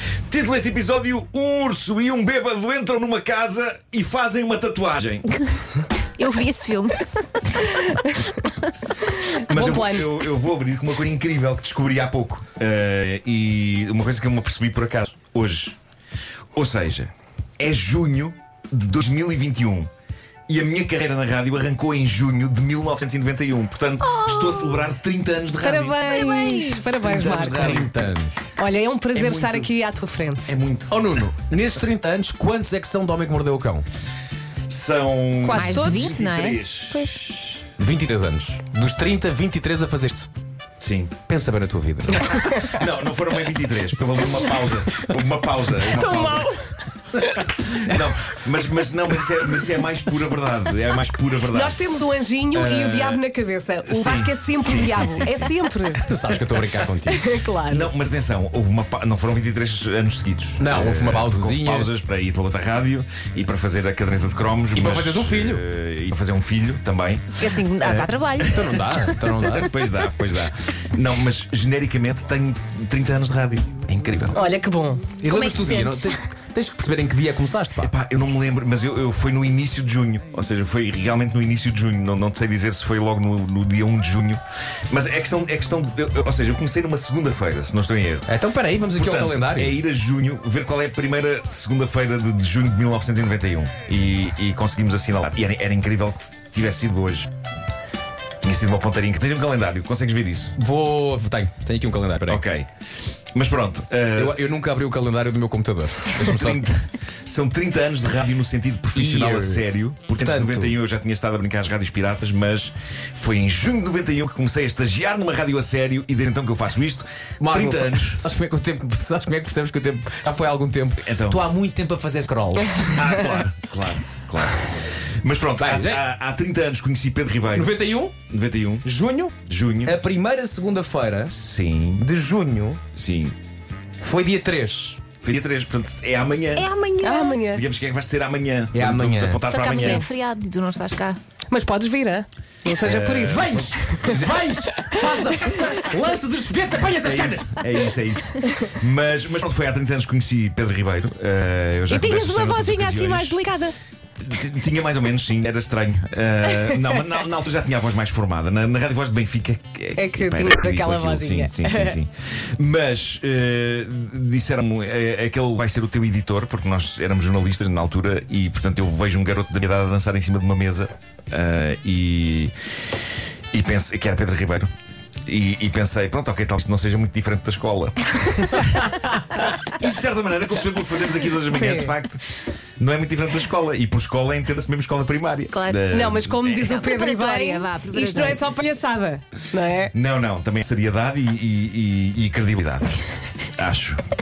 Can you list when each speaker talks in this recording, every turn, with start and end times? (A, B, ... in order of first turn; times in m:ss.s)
0:00.3-0:05.3 A
0:06.2-0:07.7 B
0:07.6-0:08.3 C
0:09.1-0:10.1 C
0:09.4-0:15.8 A
0:16.5-0:19.9 A
0:20.5-0:27.9 A
0:25.6-0:27.8 C
0:27.5-0:28.4 D
0:28.6-0:30.6 C
0:29.1-0:29.7 A
0:30.5-0:31.0 A
0:30.9-0:33.8 D
0:34.7-0:37.5 A
0:35.4-0:36.1 C
0:35.5-0:37.2 B
0:37.8-0:40.3 D
0:40.8-0:41.2 A
0:41.3-0:42.4 D
0:42.6-0:46.5 A
0:45.9-0:46.6 C
0:47.2-0:51.9 A
0:51.5-0:56.1 C
0:52.5-0:53.2 A
0:53.8-0:55.5 A
0:56.0-0:57.4 D
0:57.1-0:57.9 C
0:57.6-1:14.4 A
1:00.6-1:01.9 D
1:04.7-1:05.6 D
1:07.4-1:08.6 B
1:08.4-1:09.7 D
1:14.3-1:15.1 C
1:15.2-1:17.9 D
1:15.2-1:16.2 B
1:17.8-1:28.2 A
1:28.3-1:29.8 D
1:29.0-1:37.3 A
1:38.4-1:40.6 A
1:40.6-1:42.4 D
1:42.3-1:42.7 A
1:43.3-1:44.4 A
1:44.2-1:46.6 D
1:46.1-1:58.2 A
1:49.0-1:49.6 D
1:50.2-1:50.8 D
1:57.4-2:03.4 D
2:01.0-2:01.4 A
2:02.9-2:08.9 A
2:05.6-2:06.0 D
2:07.5-2:08.1 D
2:08.8-2:11.4 D
2:09.4-2:10.0 A
2:11.3-2:12.0 A
2:12.0-2:12.8 D
2:12.9-2:13.4 A
2:14.0-2:15.0 D
2:15.2-2:16.7 A
2:16.6-2:17.4 B
2:17.0-2:17.6 C
2:17.5-2:20.1 A
2:18.7-2:20.0 D
2:19.4-2:21.2 B
2:21.5-2:24.1 C
2:22.8-2:24.4 A
2:23.2-2:27.8 D
2:24.8-2:25.6 C
2:27.0-2:33.4 A
2:31.9-2:33.7 C
2:34.2-2:52.5 A
2:40.0-2:42.0 C
2:53.5-2:54.7 A
2:55.2-3:02.3 A
3:01.5-3:02.0 C
3:02.8-3:06.7 A
3:05.5-3:05.8 B
3:05.9-3:09.9 C
3:06.5-3:08.4 B
3:09.9-3:13.0 A
3:13.6-3:14.0 A